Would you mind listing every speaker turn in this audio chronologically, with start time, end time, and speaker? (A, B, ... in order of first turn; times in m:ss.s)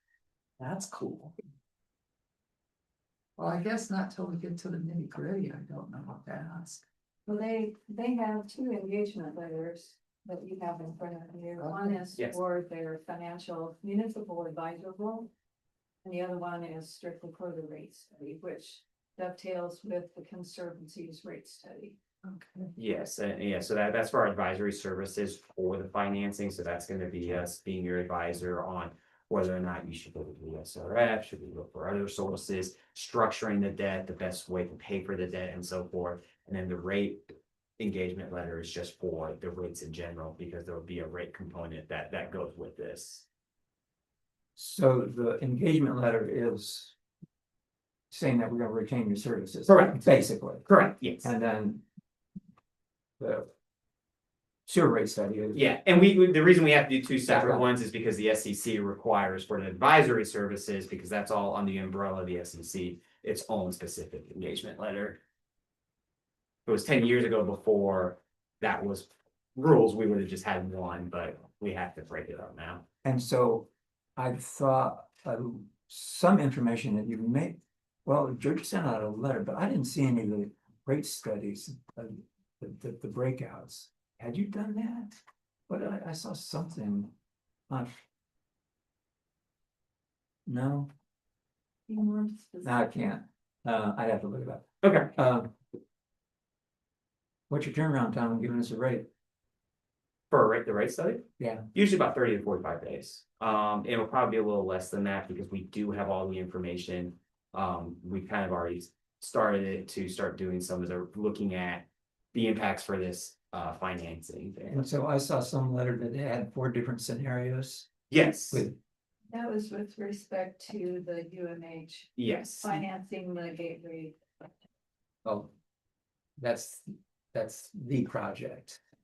0:00.6-0:01.3 A
0:03.4-0:06.8 A
0:07.2-0:15.3 B
0:11.6-0:12.0 A
0:16.0-0:22.0 B
0:22.2-0:22.7 A
0:22.8-0:43.2 C
0:44.6-0:46.9 D
0:48.1-0:51.8 D
0:49.7-0:50.0 C
0:50.6-0:51.3 C
0:53.2-0:53.5 D
0:54.7-0:55.7 D
0:55.5-1:05.2 C
0:57.3-0:57.7 D
1:06.6-1:12.8 C
1:13.0-1:25.2 D
1:25.7-1:27.1 D
1:30.4-1:30.9 D
1:31.9-1:32.9 B
1:32.6-1:35.5 D
1:34.8-1:35.1 C
1:37.5-1:39.1 D
1:40.3-1:54.9 C
1:41.4-1:41.7 D
1:54.7-1:57.9 D
1:58.1-1:58.7 C
1:58.5-1:58.8 D
1:59.3-2:04.2 B
2:02.2-2:02.8 C
2:05.2-2:05.5 D
2:06.4-2:08.8 D